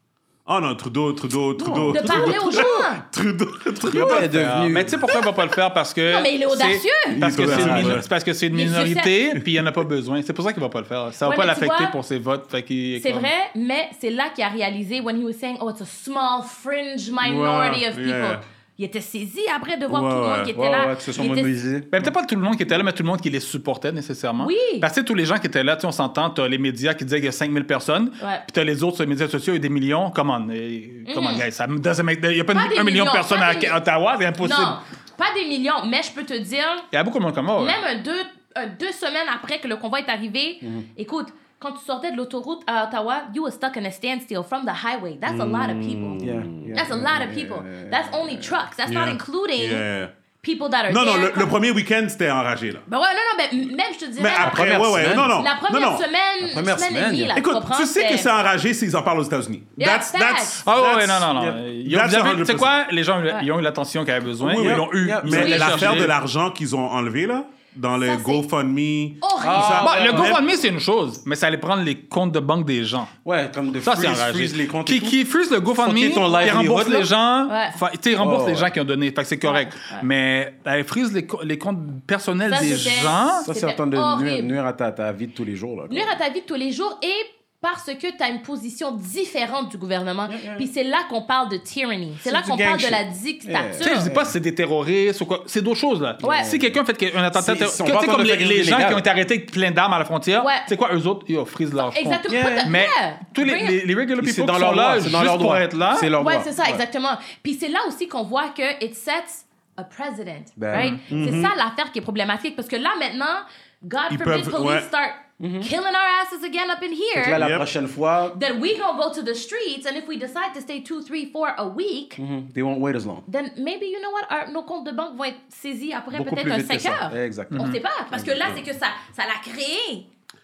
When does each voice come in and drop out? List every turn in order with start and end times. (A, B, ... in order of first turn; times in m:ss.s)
0:00.4-0:04.6 A
0:01.6-0:02.9 B
0:01.8-0:03.0 C
0:03.8-0:05.0 B
0:03.9-0:13.3 D
0:06.1-0:07.9 C
0:07.1-0:08.1 A
0:07.2-0:08.0 B
0:08.5-0:09.2 C
0:11.2-0:12.0 C
0:13.0-0:21.5 C
0:17.2-0:18.4 A
0:19.9-0:20.5 A
0:20.5-0:21.9 B
0:21.9-0:34.8 D
0:24.4-0:24.9 C
0:28.2-0:28.4 C
0:31.1-0:31.4 C
0:32.5-0:33.8 C
0:34.4-0:36.9 C
0:36.9-0:37.8 D
0:37.6-0:46.2 C
0:45.3-0:46.8 A
0:46.2-0:48.6 B
0:46.7-0:49.9 C
0:48.9-0:50.1 A
0:50.4-0:51.5 C
0:50.9-0:52.8 A
0:52.9-0:54.7 C
0:54.2-0:56.0 A
0:54.4-0:55.4 B
0:55.4-0:58.3 C
0:56.4-0:57.4 B
0:57.4-1:02.8 A
0:59.8-1:00.6 C
1:00.6-1:06.1 D
1:01.3-1:01.6 B
1:04.4-1:10.4 A
1:04.6-1:06.1 B
1:08.0-1:08.4 C
1:09.2-1:10.2 C
1:09.4-1:10.4 B
1:09.8-1:13.1 D
1:13.2-1:17.1 B
1:13.8-1:23.4 D
1:16.2-1:16.5 C
1:17.5-1:17.8 C
1:18.2-1:18.7 B
1:19.4-1:20.0 C
1:22.5-1:24.5 C
1:23.4-1:26.1 B
1:25.9-1:34.1 C
1:30.3-1:30.7 B
1:32.2-1:34.3 B
1:33.8-1:46.1 D
1:36.2-1:36.8 B
1:36.2-1:36.5 C
1:37.3-1:39.1 B
1:40.4-1:40.7 C
1:41.8-1:43.8 C
1:42.3-1:42.7 B
1:44.2-1:46.8 B
1:46.2-1:57.4 C
1:50.6-1:51.0 B
1:50.7-1:51.0 D
1:51.1-1:51.5 A
1:54.1-1:54.9 A
1:55.4-1:55.7 B
1:57.1-1:58.4 B
1:57.4-1:57.7 A
1:58.3-2:02.2 C
2:02.2-2:03.2 B
2:03.3-2:10.1 C
2:06.1-2:08.6 B
2:07.5-2:07.8 D